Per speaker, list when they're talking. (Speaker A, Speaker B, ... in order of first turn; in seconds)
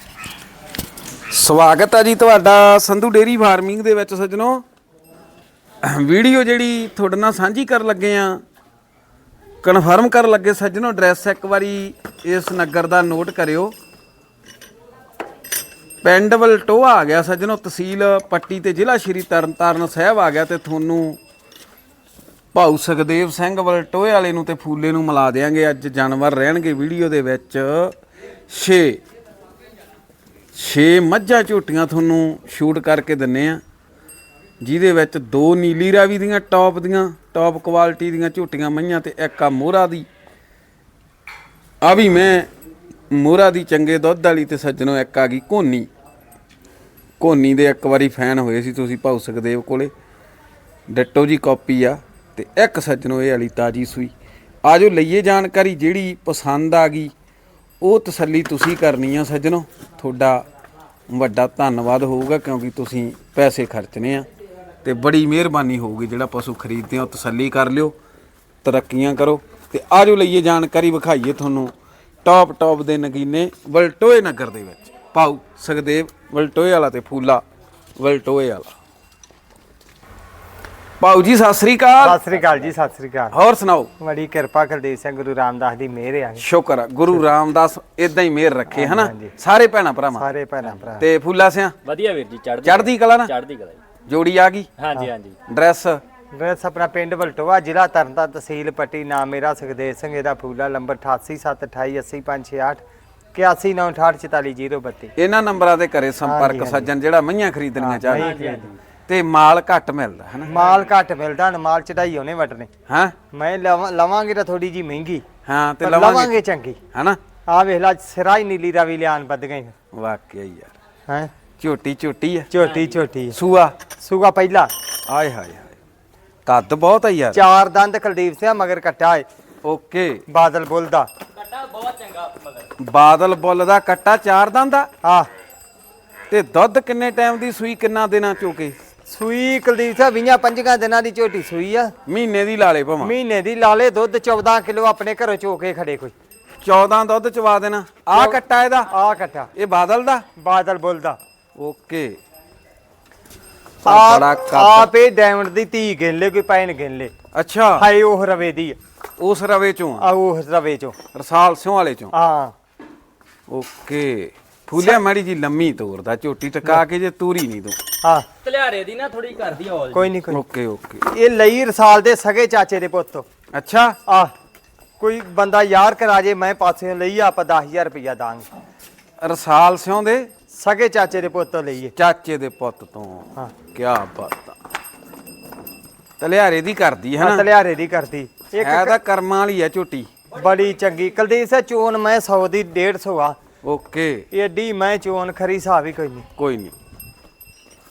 Speaker A: 1.3-4.6, 5.8-8.4, 9.6-13.7, 16.0-21.2, 22.5-27.9, 28.5-29.0, 30.5-33.6, 34.6-40.1, 41.8-42.5, 43.1-45.9, 47.2-49.9, 50.9-54.1, 54.6-57.1, 57.8-60.5, 61.1-64.3, 64.8-67.9, 68.6-71.7, 72.2-77.4, 78.0-78.7, 81.0-82.2, 83.3-83.9, 86.4-90.3, 91.0-91.8, 92.6-93.3, 94.0-94.7, 95.5-96.0, 105.2-108.3, 109.1-110.5, 112.9-113.1, 115.5-116.3, 116.9-117.2, 119.9-120.7, 121.6-122.5, 123.3-123.8, 125.1-125.8, 126.5-127.4, 129.6-130.2, 132.8-134.9, 136.3-138.7, 142.1-143.1, 146.6-148.9, 149.5-150.2, 151.6-152.2, 153.8-154.9, 157.3-157.9, 159.2-160.1, 161.1-162.1, 163.5-167.8, 170.3-171.0, 173.5-174.0, 179.2-180.3, 181.9-184.6, 186.2-187.5, 188.6-190.1, 193.6-194.2, 196.4-196.7
Speaker B: 82.0-83.3, 84.0-86.4, 88.7-89.3, 90.2-91.0, 96.3-102.8, 103.3-105.1, 106.2-106.9, 107.8-108.6, 110.4-112.7, 113.3-115.2, 115.8-116.8, 117.5-119.7, 122.5-123.3, 124.0-124.7, 127.3-129.2, 130.3-131.1, 135.0-135.3, 139.1-141.9, 143.0-146.1, 148.1-149.5, 150.3-151.2, 153.8-157.1, 157.8-158.8, 160.0-160.9, 162.1-162.5, 169.9-170.4, 171.1-173.2, 174.1-174.3, 175.0-178.4, 180.5-181.9, 187.2-189.0, 190.3-193.4, 194.3-196.2
Speaker C: 91.8-93.8, 94.8-95.3, 108.1-108.8, 122.6-123.0, 131.3-132.7, 168.4-170.2